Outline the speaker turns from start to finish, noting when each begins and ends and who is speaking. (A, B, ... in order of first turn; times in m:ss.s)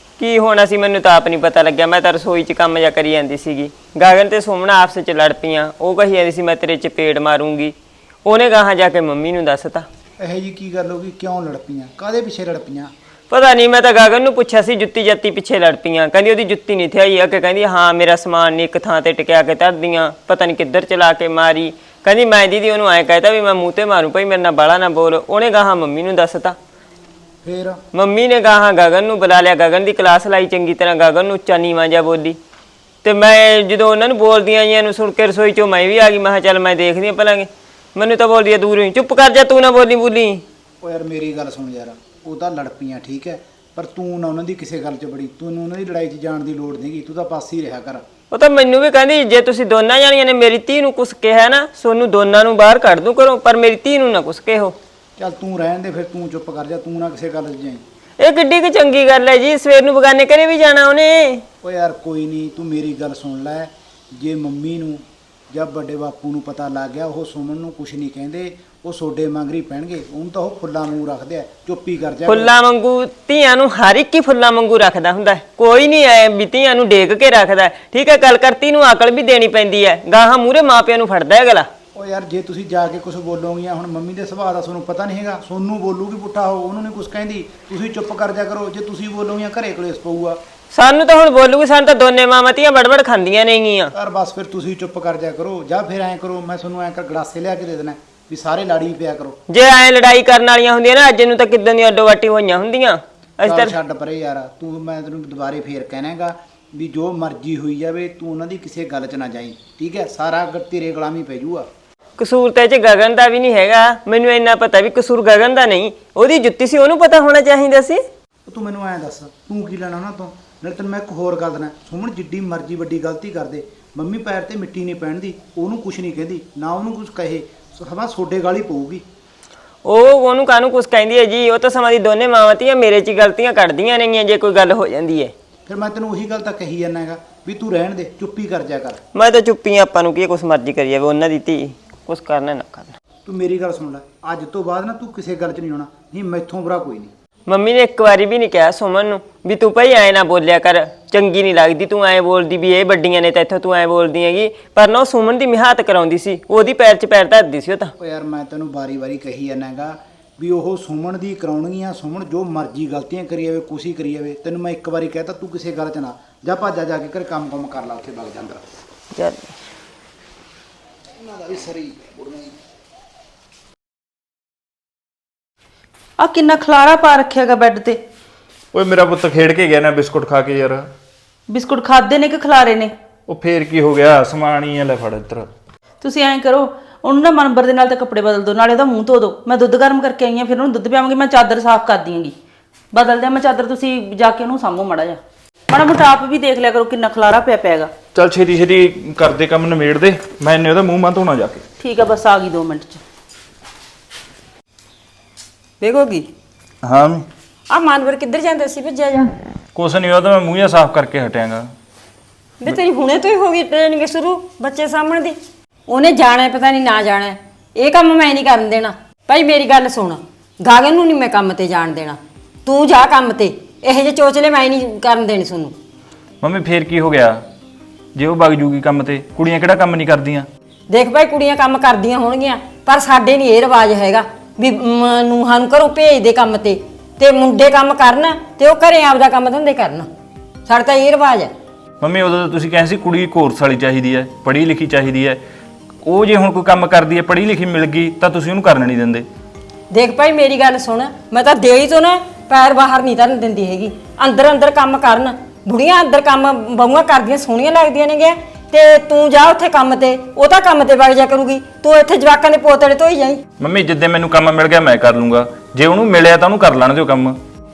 0:00.2-0:09.9 A
0:10.2-0:12.9 B
0:13.3-0:26.6 A
0:27.4-0:27.8 B
0:27.9-0:32.4 A
0:33.0-0:40.4 A
0:40.8-0:48.0 B
0:48.3-0:54.8 A
0:55.2-0:57.8 B
0:58.2-1:01.4 A
1:01.6-1:12.5 B
1:12.2-1:21.7 A
1:21.9-1:30.4 B
1:30.7-1:33.9 A
1:33.9-1:39.4 B
1:39.5-1:43.7 A
1:43.4-1:51.7 B
1:52.2-1:58.0 A
1:58.4-2:09.0 B
2:09.8-2:15.3 A
2:15.6-2:19.0 B
2:19.1-2:23.0 A
2:23.2-2:27.1 B
2:27.5-2:37.9 A
2:38.0-2:48.7 B
2:49.1-2:49.5 A
2:51.2-2:52.6 B
2:56.2-2:58.0 C
2:58.7-3:00.9 D
3:01.5-3:02.9 C
3:03.3-3:05.5 D
3:06.0-3:12.3 C
3:12.9-3:17.9 C
3:18.1-3:21.6 D
3:21.8-3:23.0 C
3:25.8-3:26.3 E
3:26.8-3:27.2 D
3:27.7-3:29.3 E
3:29.7-3:31.7 D
3:32.6-3:35.4 E
3:35.9-3:45.8 E
3:46.4-3:47.4 D
3:48.1-3:50.5 D
3:50.9-4:00.1 E
4:00.6-4:01.5 E
4:02.0-4:05.4 D
4:06.0-4:09.2 D
4:09.9-4:23.4 E
4:23.6-4:27.4 D